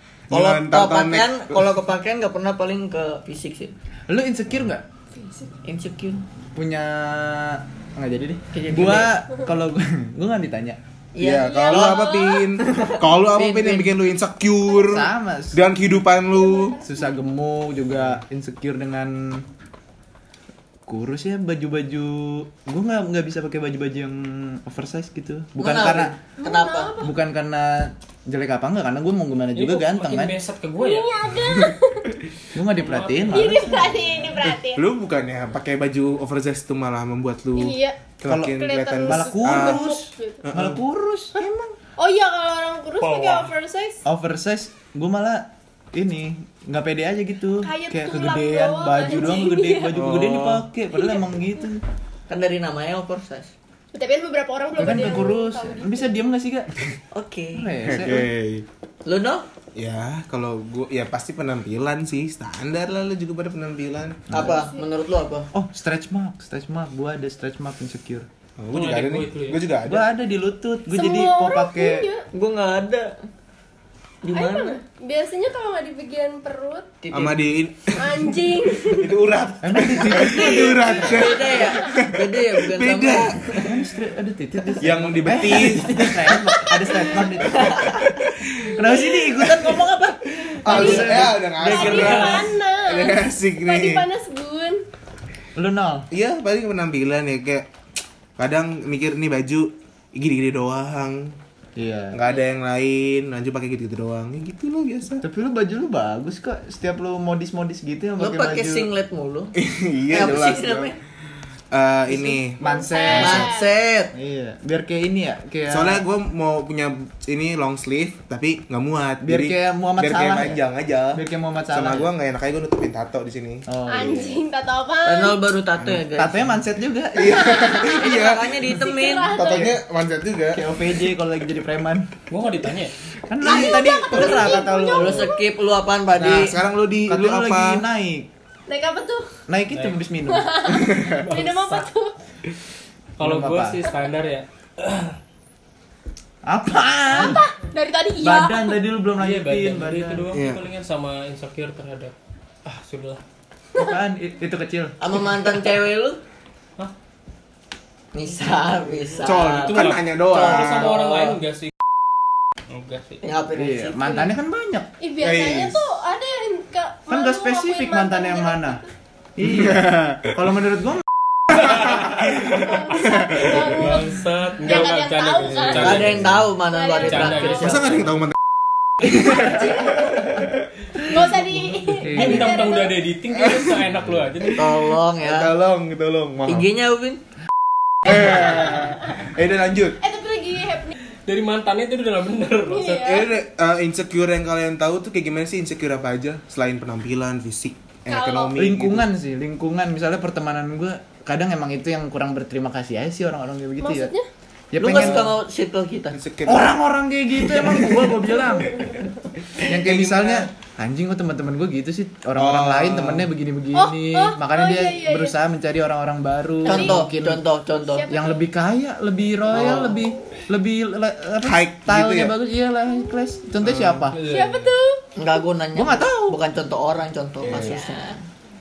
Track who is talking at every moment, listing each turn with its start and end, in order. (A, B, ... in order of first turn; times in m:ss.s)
0:00.3-0:01.7 A
0:00.3-0:03.7 B
0:04.1-0:04.8 C
0:05.1-0:05.5 D
0:05.6-0:06.2 B
0:06.5-0:10.8 C
0:08.5-0:09.2 B
0:11.1-0:14.0 B
0:11.2-0:16.8 A
0:11.4-0:12.5 D
0:14.7-0:15.6 C
0:16.3-0:17.2 D
0:16.8-0:19.4 C
0:20.9-0:26.2 C
0:25.6-0:26.9 B
0:26.4-0:27.1 D
0:27.0-0:30.4 C
0:29.5-0:31.2 E
0:30.8-0:32.1 D
0:32.5-0:34.0 C
0:32.8-0:34.1 E
0:33.3-0:34.8 D
0:34.7-0:39.9 A
0:37.6-0:38.0 D
0:38.2-0:41.4 C
0:38.5-0:40.4 D
0:40.4-0:40.8 A
0:41.4-0:41.7 A
0:42.0-0:44.0 D
0:43.0-0:43.5 E
0:44.0-0:51.8 C
0:47.6-0:50.0 D
0:49.9-0:50.6 A
0:50.9-0:51.2 D
0:52.3-0:53.5 B
0:53.9-0:56.2 D
0:54.8-0:56.7 C
0:57.1-0:57.7 B
0:57.6-0:58.3 C
0:57.8-0:58.6 A
0:59.0-0:59.4 B
0:59.8-1:04.4 A
1:04.3-1:05.5 B
1:04.3-1:04.8 D
1:05.5-1:08.3 C
1:08.6-1:10.1 A
1:08.7-1:09.6 E
1:09.8-1:12.1 C
1:10.9-1:12.2 D
1:12.3-1:13.2 B
1:14.2-1:14.8 B
1:14.3-1:16.9 D
1:17.0-1:17.4 B
1:17.1-1:23.4 A
1:18.0-1:19.2 D
1:19.6-1:21.3 C
1:20.0-1:23.8 B
1:20.2-1:21.9 D
1:23.6-1:30.0 C
1:24.8-1:26.5 A
1:25.4-1:26.7 B
1:27.4-1:28.3 B
1:28.8-1:32.4 B
1:30.6-1:34.0 A
1:30.6-1:31.4 C
1:30.7-1:34.8 D
1:35.5-1:36.1 C
1:36.1-1:37.7 A
1:38.4-1:41.4 A
1:41.8-1:42.2 C
1:42.1-1:45.2 A
1:45.2-1:48.9 C
1:48.2-1:49.5 B
1:49.5-1:50.9 A
1:50.1-1:51.0 B
1:51.7-1:53.4 A
1:52.1-1:53.5 C
1:52.6-1:53.7 D
1:53.1-1:54.1 B
1:54.1-1:56.0 C
1:55.7-2:03.6 A
1:59.2-2:00.6 C
2:01.1-2:02.1 C
2:03.7-2:04.4 C
2:03.9-2:05.4 D
2:05.0-2:06.4 B
2:06.1-2:07.8 C
2:07.1-2:08.6 A
2:07.2-2:09.8 D
2:07.9-2:09.4 B
2:09.3-2:10.6 A
2:10.5-2:12.1 C
2:12.3-2:12.9 E
2:13.3-2:15.3 C
2:13.4-2:15.4 D
2:13.4-2:14.6 A
2:14.9-2:16.6 B
2:16.2-2:17.8 A
2:17.0-2:18.3 C
2:18.7-2:19.3 D
2:19.5-2:20.7 C
2:19.7-2:20.0 E
2:20.3-2:22.1 D
2:20.7-2:21.2 A
2:21.1-2:21.9 E
2:23.2-2:25.2 E
2:23.2-2:23.8 C
2:26.4-2:27.4 C
2:27.1-2:28.8 D
2:28.2-2:30.3 C
2:29.2-2:33.2 E
2:30.3-2:30.7 A
2:33.8-2:35.0 C
2:35.0-2:36.2 B
2:38.1-2:41.4 B
2:39.2-2:40.9 A
2:39.4-2:41.7 E
2:42.7-2:43.2 E
2:43.2-2:44.2 B
2:43.6-2:44.9 C
2:45.0-2:48.9 D
2:45.2-2:45.8 A
2:47.1-2:48.8 C
2:49.4-2:51.0 C
2:49.4-2:50.2 A
2:51.5-2:52.2 E
2:52.4-2:56.1 D
2:53.3-2:53.6 A
2:53.4-2:56.4 E
2:55.7-2:58.0 B
2:56.7-2:58.0 D
2:57.0-2:58.0 E
2:57.6-2:58.3 A
2:59.0-3:00.4 A
2:59.1-3:00.5 D
3:01.0-3:03.0 D
3:02.0-3:04.6 E
3:02.0-3:02.6 C
3:03.3-3:06.6 A
3:04.5-3:05.5 B
3:06.4-3:07.2 B
3:08.0-3:10.0 A
3:10.0-3:11.0 D
3:11.3-3:13.2 E
3:12.7-3:13.3 D
3:13.0-3:19.1 A
3:18.1-3:18.6 D
3:18.6-3:24.1 C
3:23.8-3:24.3 D
3:24.7-3:25.3 C
3:24.8-3:26.2 B
3:24.9-3:25.3 A
3:26.1-3:26.8 A
3:26.4-3:28.9 C
3:27.5-3:28.2 A
3:29.6-3:30.5 A
3:29.6-3:37.4 C
3:32.4-3:33.3 A
3:33.7-3:35.4 D
3:36.6-3:37.1 D
3:36.6-3:38.1 B
3:37.9-3:38.4 D
3:38.1-3:44.1 C
3:39.5-3:40.0 B
3:39.8-3:40.2 D
3:41.4-3:42.3 A
3:43.6-3:44.1 A
3:44.1-3:44.7 E
3:44.2-3:45.0 D
3:45.2-3:48.2 B
3:45.7-3:46.4 C
3:47.4-3:47.7 A